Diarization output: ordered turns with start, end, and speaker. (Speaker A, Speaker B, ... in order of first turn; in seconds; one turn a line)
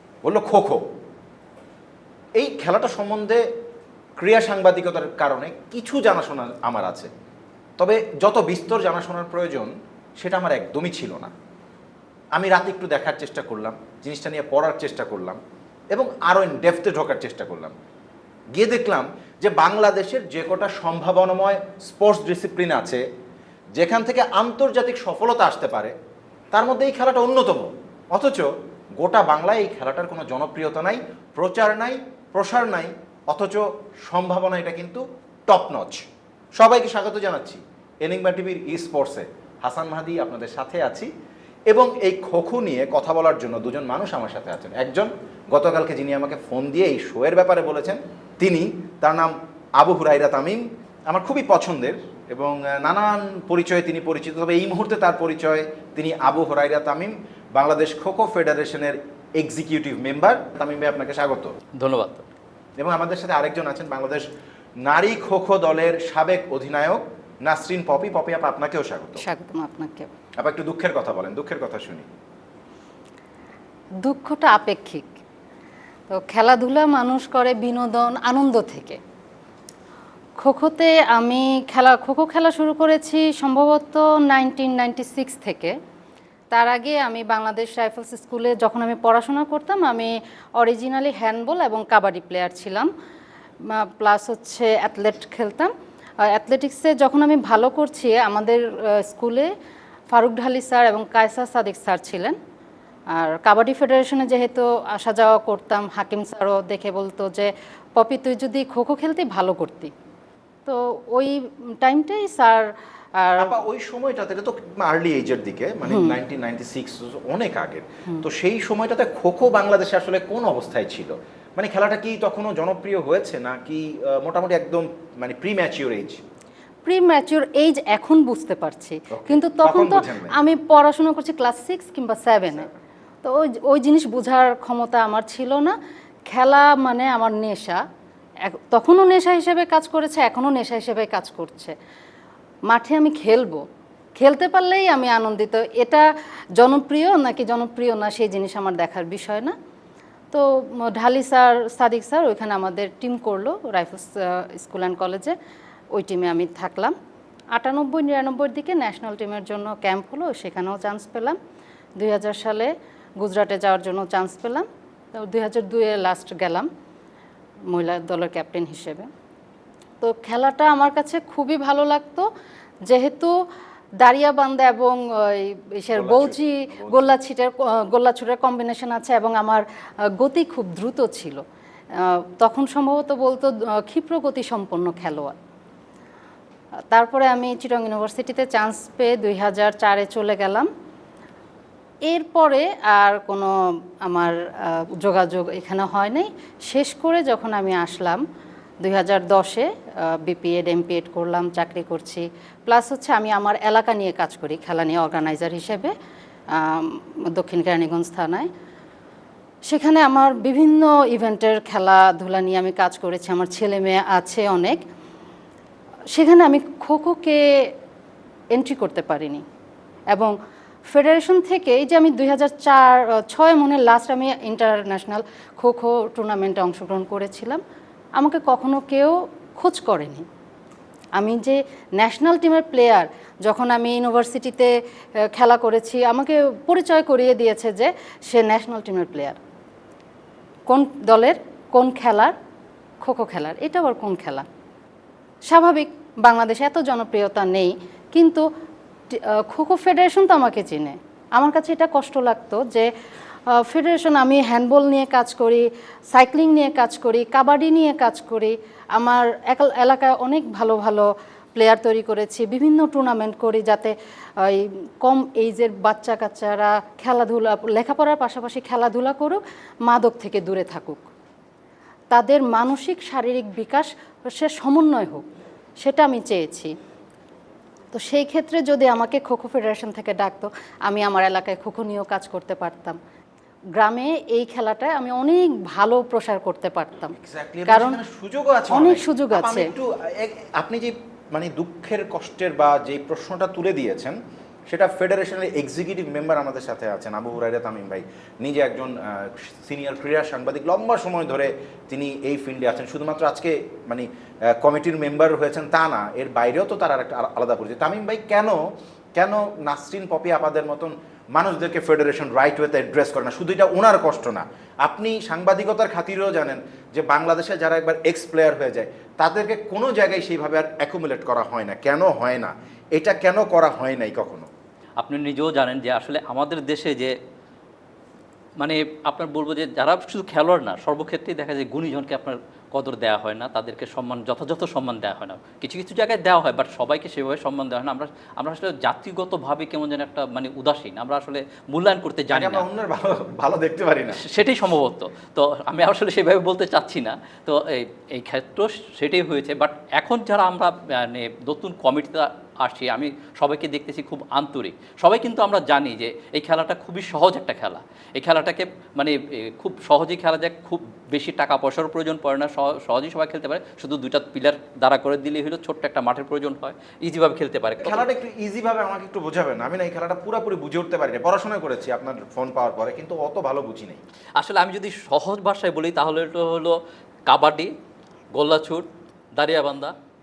Speaker A: 0.2-0.8
Speaker A: 2.4-3.4
Speaker A: 4.2-7.1
Speaker A: 7.8-11.3
Speaker A: 12.3-15.4
Speaker A: 15.9-17.7
Speaker A: 18.5-23.0
Speaker A: 23.7-25.9
Speaker A: 26.5-41.1
Speaker A: 41.7-61.5
Speaker B: 61.8-62.2
Speaker A: 62.8-64.3
Speaker A: 64.8-69.2
Speaker C: 69.2-70.1
Speaker A: 70.4-72.0
Speaker C: 74.0-75.2
Speaker C: 76.1-79.0
Speaker C: 80.4-85.7
Speaker C: 86.5-92.9
Speaker C: 93.7-95.7
Speaker C: 96.2-99.5
Speaker C: 100.1-102.3
Speaker C: 103.1-109.9
Speaker C: 110.7-112.7
Speaker C: 113.2-113.6
Speaker A: 113.4-126.2
Speaker C: 115.9-116.2
Speaker C: 126.8-132.7
Speaker A: 129.1-130.4
Speaker C: 133.2-135.7
Speaker C: 136.3-137.8
Speaker C: 138.4-141.7
Speaker C: 142.7-143.6
Speaker C: 144.2-146.0
Speaker C: 146.6-149.5
Speaker C: 150.3-155.3
Speaker C: 155.9-156.9
Speaker C: 157.5-161.4
Speaker C: 162.0-166.7
Speaker C: 167.7-169.1
Speaker C: 170.0-172.3
Speaker C: 172.8-173.3
Speaker C: 174.0-179.6
Speaker A: 175.9-177.2
Speaker C: 180.2-181.4
Speaker C: 182.0-185.3
Speaker C: 186.9-190.7
Speaker C: 192.1-198.2
Speaker C: 198.8-205.9
Speaker C: 206.5-208.5
Speaker C: 209.6-214.8
Speaker C: 216.1-217.7
Speaker C: 218.5-219.4
Speaker C: 220.9-227.6
Speaker C: 228.2-230.2
Speaker C: 231.2-234.7
Speaker C: 235.3-239.4
Speaker C: 240.7-242.3
Speaker C: 243.0-244.4
Speaker C: 245.4-248.4
Speaker C: 249.1-252.9
Speaker C: 253.5-271.1
Speaker C: 272.1-275.2
Speaker C: 275.8-276.7
Speaker C: 277.9-283.0
Speaker C: 283.8-287.1
Speaker A: 287.1-294.1
Speaker C: 287.7-288.0
Speaker C: 288.7-289.7
Speaker A: 294.7-308.6
Speaker A: 309.1-324.5
Speaker B: 325.0-327.1
Speaker B: 328.6-342.6
Speaker A: 342.3-344.2
Speaker B: 344.1-368.1
Speaker A: 367.8-374.0
Speaker B: 374.4-376.7
Speaker B: 377.3-377.7
Speaker B: 378.3-379.9